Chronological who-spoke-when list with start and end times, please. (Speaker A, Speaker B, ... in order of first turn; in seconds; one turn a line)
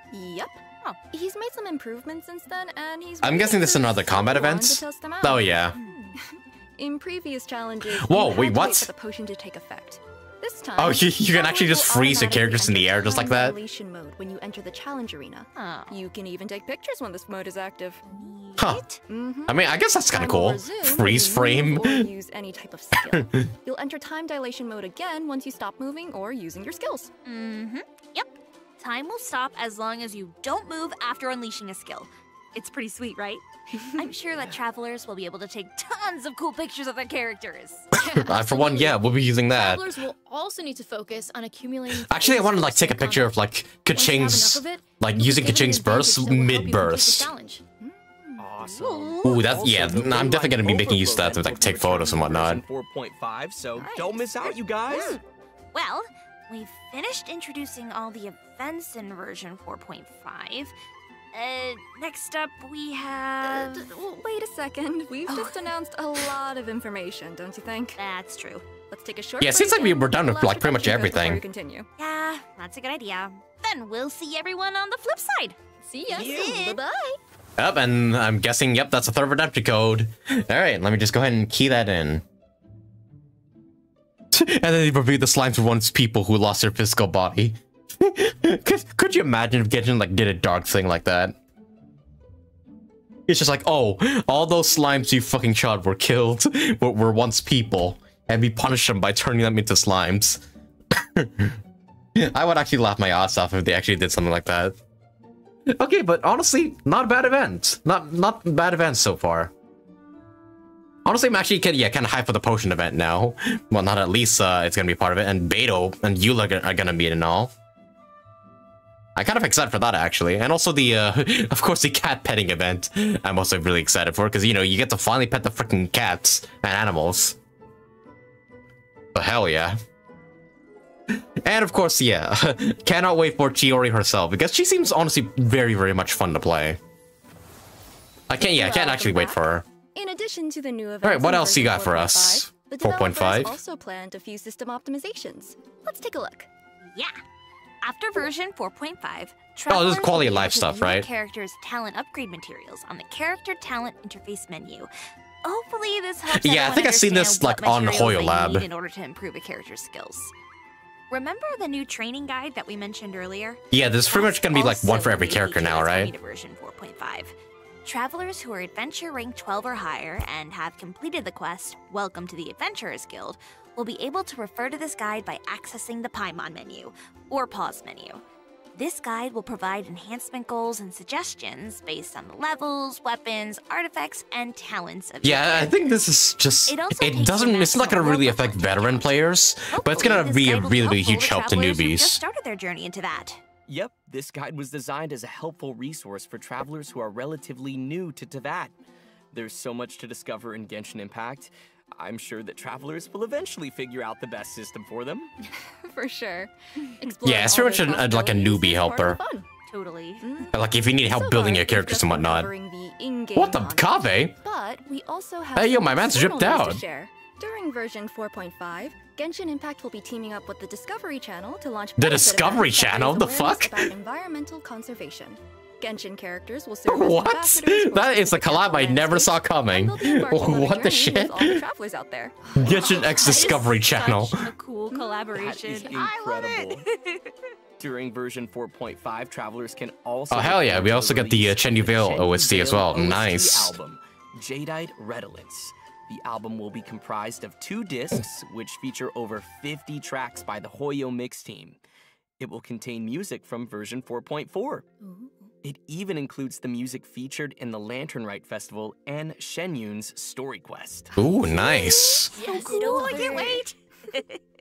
Speaker A: 0.1-18.0
Speaker B: 3.2-5.8
Speaker C: 5.8-6.1
Speaker B: 7.9-8.9
Speaker B: 10.8-13.6
Speaker C: 15.6-16.0
Speaker C: 18.1-19.0
Speaker B: 18.6-18.8
Speaker A: 19.1-19.6
Speaker B: 19.5-22.1
Speaker A: 20.1-27.1
Speaker B: 23.0-23.5
Speaker C: 27.3-37.9
Speaker D: 37.9-43.4
Speaker B: 37.9-39.9
Speaker B: 42.0-47.3
Speaker D: 43.9-47.6
Speaker A: 47.8-48.5
Speaker E: 48.4-55.2
Speaker C: 48.7-49.4
Speaker B: 49.2-52.6
Speaker A: 53.8-55.2
Speaker C: 54.9-55.2
Speaker C: 55.7-60.7
Speaker C: 61.3-63.9
Speaker A: 63.4-68.0
Speaker C: 65.3-66.2
Speaker C: 68.0-68.7
Speaker A: 68.9-71.9
Speaker B: 69.4-71.4
Speaker C: 72.0-75.6
Speaker D: 75.8-76.3
Speaker A: 76.1-77.2
Speaker E: 76.1-76.5
Speaker C: 76.2-76.8
Speaker B: 77.6-82.2
Speaker B: 84.3-91.4
Speaker B: 93.3-100.4
Speaker B: 100.9-101.6
Speaker B: 102.2-104.8
Speaker B: 105.7-109.5
Speaker B: 111.0-117.5
Speaker B: 119.2-127.4
Speaker B: 129.1-129.8
Speaker B: 131.1-136.8
Speaker B: 138.3-139.6
Speaker A: 138.4-139.4
Speaker A: 139.9-146.5
Speaker B: 141.0-143.6
Speaker C: 146.9-147.2
Speaker C: 147.8-154.9
Speaker B: 149.7-151.1
Speaker C: 155.4-160.3
Speaker B: 156.3-158.7
Speaker C: 161.1-167.3
Speaker B: 163.7-166.1
Speaker C: 167.8-178.2
Speaker C: 178.8-186.0
Speaker B: 185.2-192.2
Speaker C: 186.7-189.1
Speaker C: 189.7-193.4
Speaker E: 193.7-198.7
Speaker E: 199.3-205.3
Speaker A: 205.5-209.5
Speaker B: 207.2-209.2
Speaker C: 209.7-210.3
Speaker A: 210.2-232.6
Speaker B: 210.5-212.5
Speaker B: 213.3-214.3
Speaker B: 215.6-216.8
Speaker B: 222.0-223.9
Speaker B: 226.9-231.6
Speaker B: 232.6-234.5
Speaker C: 232.7-237.5
Speaker D: 232.7-233.6
Speaker E: 235.3-236.8
Speaker E: 237.8-251.8
Speaker B: 240.3-243.8
Speaker E: 252.4-254.9
Speaker D: 255.1-255.3
Speaker E: 255.6-261.1
Speaker B: 261.2-262.3
Speaker A: 261.4-263.7
Speaker C: 262.3-264.4
Speaker D: 262.4-263.6